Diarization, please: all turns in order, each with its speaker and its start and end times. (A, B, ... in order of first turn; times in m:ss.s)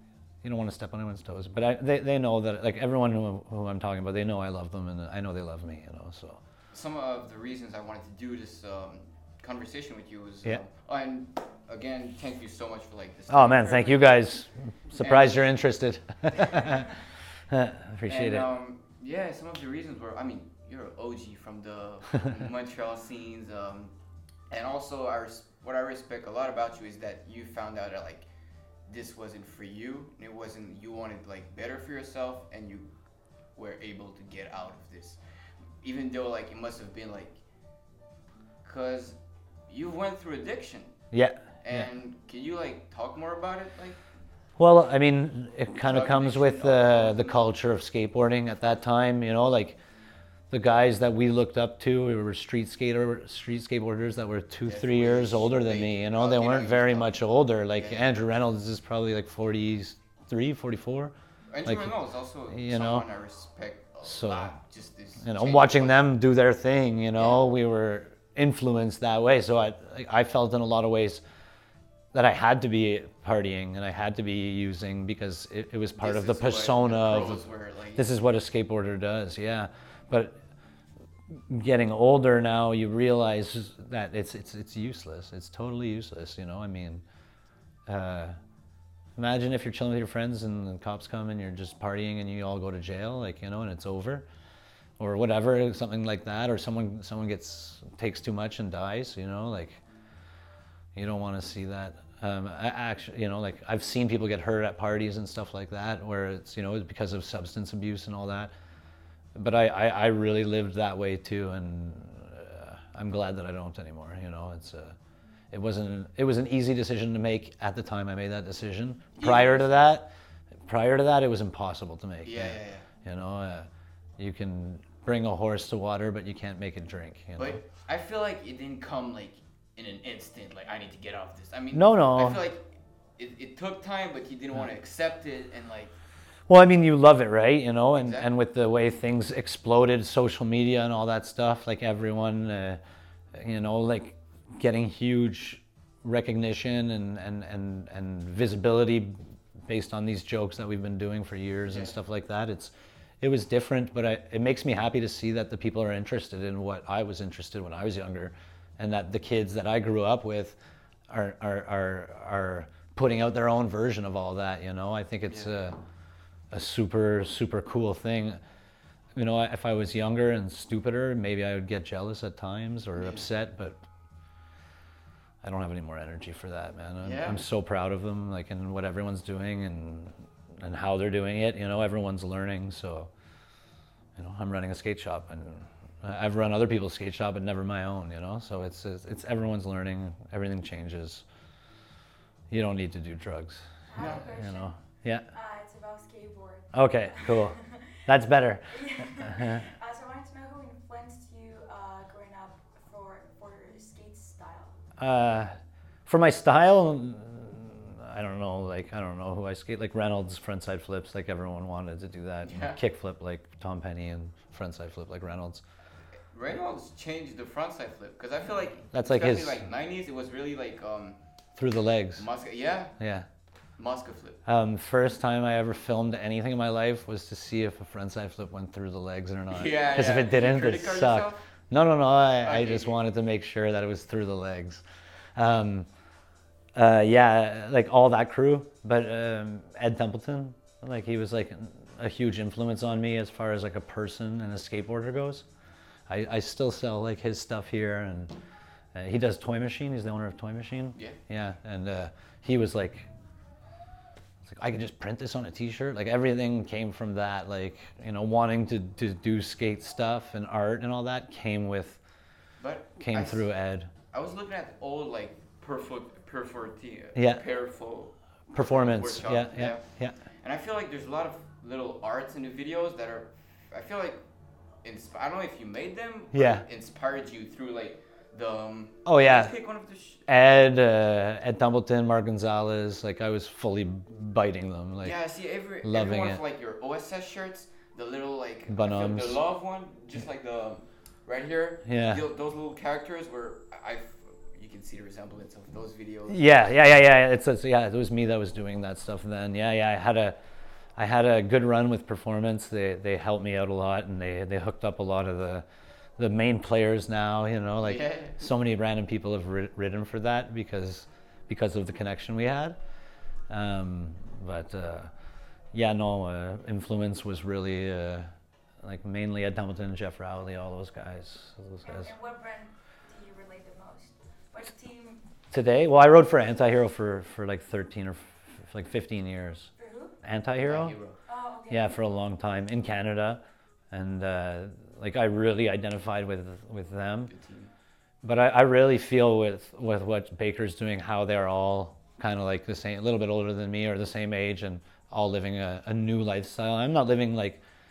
0:00.4-0:06.4 A
0:06.7-0:14.2 B
0:13.3-0:17.0 A
0:15.0-0:15.6 B
0:17.5-0:18.5 A
0:18.1-0:23.9 B
0:24.5-0:28.3 B
0:28.9-0:32.9 B
0:33.6-0:35.2 B
0:35.8-0:37.4 B
0:38.6-0:41.0 B
0:41.1-0:41.9 A
0:41.6-0:44.0 B
0:44.6-0:49.8 A
0:45.8-0:47.4 B
0:50.5-1:01.1 A
0:54.6-0:57.1 B
0:57.7-0:58.2 B
1:01.5-1:06.1 B
1:01.6-1:02.0 A
1:02.5-1:03.1 A
1:04.0-1:04.6 A
1:05.2-1:11.2 A
1:07.2-1:07.4 B
1:12.1-1:17.4 A
1:16.0-1:18.1 B
1:18.0-1:20.4 A
1:21.4-1:27.0 A
1:27.9-1:28.4 A
1:29.2-1:34.3 A
1:35.0-1:39.8 A
1:41.0-1:48.5 A
1:49.4-1:55.0 A
1:55.5-2:00.1 A
1:59.2-1:59.8 B
2:00.6-2:07.6 A
2:02.2-2:02.9 B
2:07.4-2:16.0 B
2:11.7-2:12.4 A
2:16.5-2:22.8 A
2:17.9-2:18.3 B
2:23.3-2:40.6 A
2:31.7-2:32.0 B
2:41.1-2:45.8 A
2:45.3-2:45.5 B
2:46.5-2:48.4 A
2:49.2-2:53.8 A
2:52.9-2:53.3 B
2:55.4-3:03.1 A
2:57.0-2:57.4 B
3:04.2-3:11.2 A
3:12.5-3:13.6 A
3:13.9-3:14.7 C
3:14.0-3:14.2 B
3:14.2-3:15.3 A
3:15.3-3:17.9 C
3:16.7-3:19.6 A
3:18.6-3:24.8 C
3:25.0-3:25.5 A
3:26.1-3:35.6 A
3:32.4-3:32.8 B
3:36.3-3:41.2 B
3:38.9-3:39.6 A
3:41.6-3:42.2 A
3:42.2-3:43.0 B
3:43.0-3:43.3 A
3:43.8-3:44.4 B
3:44.5-3:54.8 A
3:49.5-3:51.4 B
3:52.4-3:53.0 B
3:55.4-3:55.9 A
3:56.8-4:05.5 A
4:06.1-4:08.3 A
4:08.9-4:13.1 A
4:14.4-4:22.0 A
4:22.6-4:23.5 B
4:23.0-4:23.9 A
4:24.1-4:34.2 B
4:27.2-4:27.4 A
4:28.5-4:30.2 A
4:34.8-4:40.3 B
4:36.3-4:36.6 A
4:39.0-4:39.5 A
4:40.3-4:45.2 A
4:45.0-4:56.6 B
4:45.8-4:46.4 A
4:48.7-4:49.4 A
4:51.8-4:52.2 A
4:56.3-5:00.4 A
5:01.0-5:05.6 A
5:06.2-5:12.8 A
5:07.8-5:08.4 B
5:13.5-5:15.1 A
5:15.7-5:18.3 A
5:18.8-5:22.1 A
5:21.8-5:25.2 C
5:25.5-5:29.7 A
5:29.8-5:30.1 C
5:30.2-5:31.0 A
5:30.6-5:31.2 B
5:31.3-5:32.0 C
5:31.7-5:33.4 A
5:33.9-5:37.3 A
5:37.3-5:37.7 B
5:38.2-5:47.6 A